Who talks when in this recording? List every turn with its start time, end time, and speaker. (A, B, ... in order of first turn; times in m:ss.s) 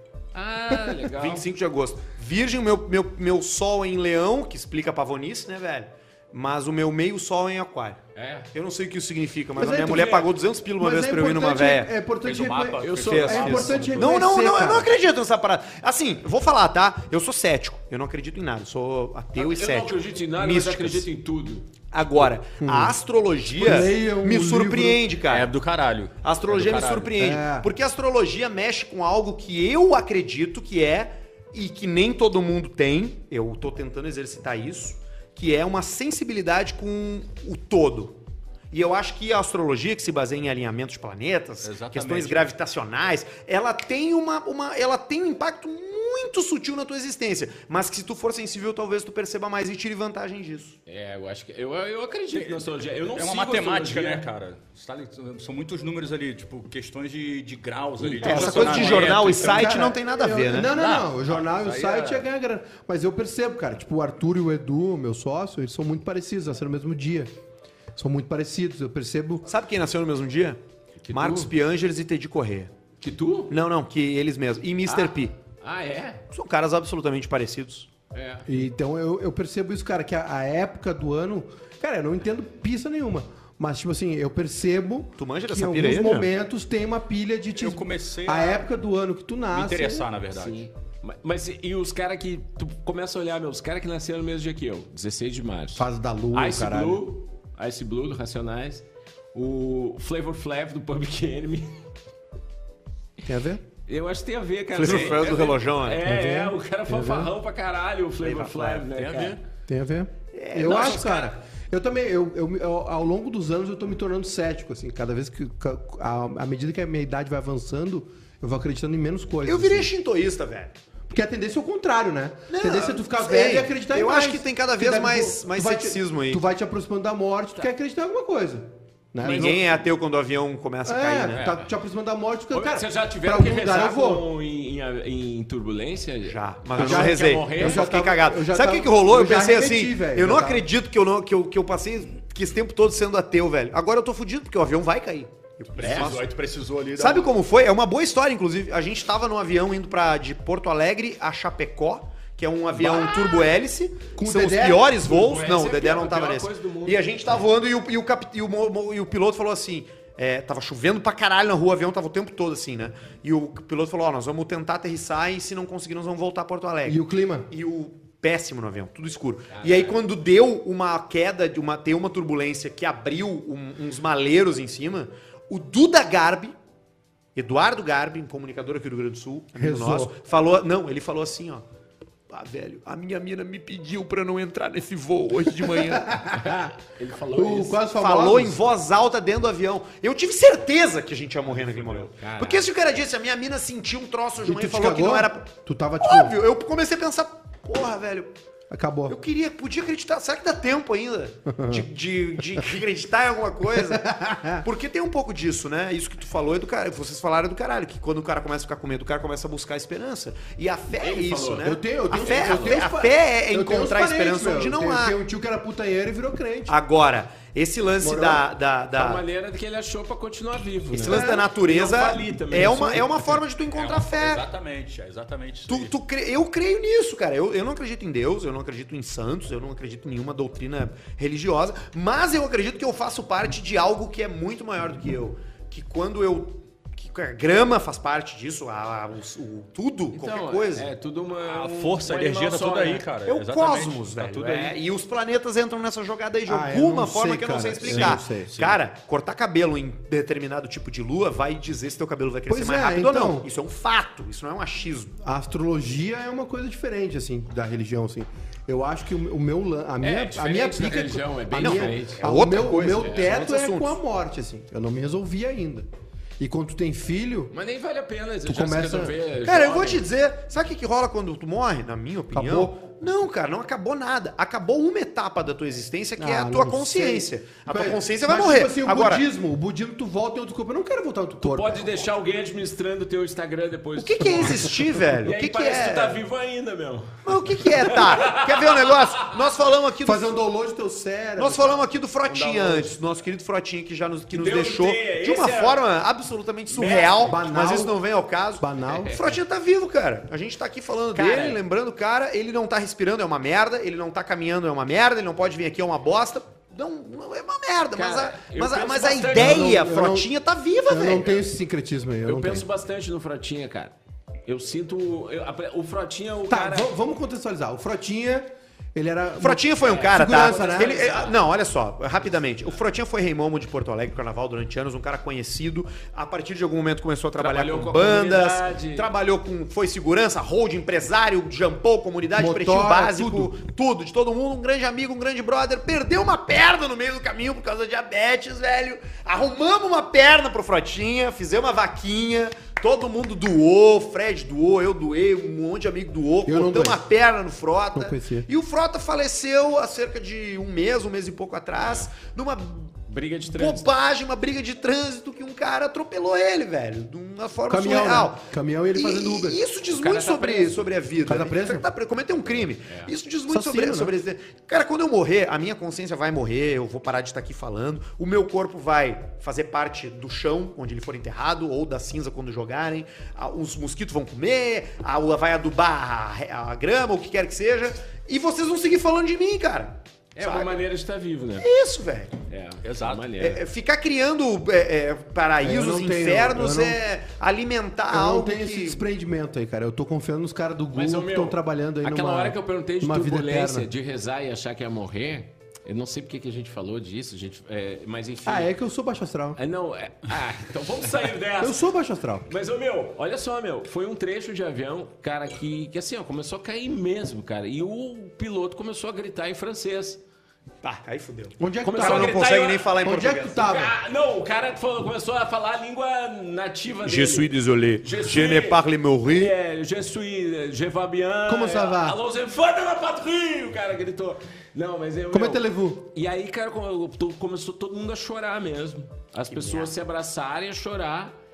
0:00.3-0:01.4 A
0:01.1-0:08.0 B
0:08.1-0:08.5 A
0:08.5-0:11.9 B
0:09.6-0:14.9 C
0:09.6-0:10.3 A
0:12.2-0:14.1 D
0:12.8-0:14.0 A
0:13.0-0:21.1 B
0:19.3-0:21.7 A
0:21.9-0:25.5 B
0:22.6-0:22.9 C
0:23.5-0:25.0 C
0:25.3-0:27.2 D
0:26.2-0:38.2 B
0:27.2-0:27.7 C
0:38.7-0:50.8 B
0:41.6-0:42.5 D
0:50.9-0:54.3 A
0:52.3-0:59.8 D
0:58.0-0:59.4 A
0:58.2-1:00.7 B
0:59.3-1:07.3 C
1:00.7-1:02.2 D
1:08.0-1:09.4 C
1:09.4-1:10.6 B
1:11.0-1:11.5 A
1:11.1-1:12.7 B
1:13.0-1:13.5 A
1:13.5-1:15.3 B
1:14.8-1:16.2 A
1:16.3-1:17.9 B
1:18.1-1:18.5 A
1:18.4-1:30.1 C
1:25.2-1:26.3 B
1:27.6-1:28.6 D
1:29.5-1:30.6 D
1:30.3-1:41.8 A
1:35.7-1:37.0 C
1:43.2-1:43.6 C
1:43.9-1:49.4 A
1:44.7-1:46.0 B
1:46.0-1:47.3 C
1:48.2-1:48.9 B
1:48.9-1:49.4 D
1:49.7-1:59.9 C
1:50.3-1:51.3 B
1:59.4-2:00.8 B
2:01.1-2:09.6 C
2:02.5-2:06.4 B
2:09.2-2:11.4 B
2:10.8-2:14.2 C
2:11.3-2:11.7 A
2:12.5-2:17.9 A
2:16.2-2:26.3 B
2:16.8-2:20.6 C
2:25.7-2:27.3 D
2:25.8-2:26.2 A
2:27.0-2:56.6 B
2:32.8-2:33.1 A
2:32.9-2:33.2 C
2:34.2-2:35.0 C
2:35.0-2:37.0 A
2:46.8-2:47.5 C
2:49.5-2:50.0 A
2:57.3-3:01.6 B
2:59.6-3:00.1 C
3:02.3-3:06.5 B
3:05.8-3:06.7 C
3:06.3-3:07.8 A
3:07.3-3:08.6 C
3:08.0-3:15.5 B
3:11.5-3:12.1 D
3:12.1-3:12.6 A
3:14.4-3:16.4 C
3:16.0-3:18.3 B
3:18.7-3:19.2 C
3:19.1-3:35.1 B
3:21.5-3:21.9 C
3:23.7-3:24.6 C
3:30.9-3:32.8 A
3:31.6-3:36.7 C
3:36.7-3:39.2 B
3:38.0-3:38.4 C
3:38.9-3:43.2 A
3:40.9-3:44.4 B
3:41.0-3:41.5 C
3:43.7-3:45.9 D
3:45.7-4:00.9 B
4:00.1-4:03.0 A
4:01.4-4:04.8 D
4:03.2-4:15.2 B
4:06.5-4:08.5 C
4:07.8-4:08.8 D
4:12.5-4:13.5 C
4:15.2-4:25.9 C
4:20.0-4:22.2 A
4:21.6-4:24.0 B
4:23.0-4:23.3 A
4:26.4-4:27.5 C
4:27.5-4:30.0 A
4:28.4-4:29.1 C
4:29.4-4:39.2 B
4:32.3-4:32.7 C
4:36.2-4:42.0 C
4:41.4-4:49.0 A
4:44.0-4:46.2 B
4:47.2-4:50.3 B
4:50.0-4:51.8 C
4:51.4-5:11.4 B
4:52.3-4:53.0 A
4:54.3-4:55.8 A
4:56.7-4:57.3 A
4:57.2-4:58.0 C
4:58.6-4:59.2 C
4:58.9-4:59.4 A
5:01.1-5:01.6 A
5:07.9-5:09.8 A
5:09.3-5:10.3 C
5:10.9-5:12.6 C
5:12.2-5:13.9 A
5:14.4-5:16.9 A
5:16.5-5:21.2 C
5:19.4-6:20.8 B
5:19.8-5:21.4 A
5:27.4-5:29.1 A
5:32.4-5:33.5 C
5:46.4-5:47.0 C
5:47.9-5:48.5 C
5:53.1-5:53.9 A
5:57.7-5:59.6 C
5:59.9-6:00.9 A
6:01.2-6:01.9 C
6:02.8-6:03.1 A
6:03.5-6:04.1 C
6:20.4-6:21.7 A
6:21.6-6:22.3 B
6:22.5-6:23.6 A
6:22.8-6:23.3 D
6:23.4-6:29.0 B
6:25.6-6:27.0 C
6:28.1-6:33.9 C
6:30.9-6:38.7 A
6:38.4-6:39.6 C
6:39.6-6:41.8 A
6:41.6-6:42.5 C
6:42.5-6:50.2 A
6:50.8-6:53.8 B
6:51.6-6:52.4 C
6:51.8-6:52.9 A
6:53.0-6:53.9 C
6:53.6-7:11.4 A
6:57.0-6:59.5 B
7:01.5-7:02.2 C
7:05.3-7:06.1 C
7:09.5-7:10.0 B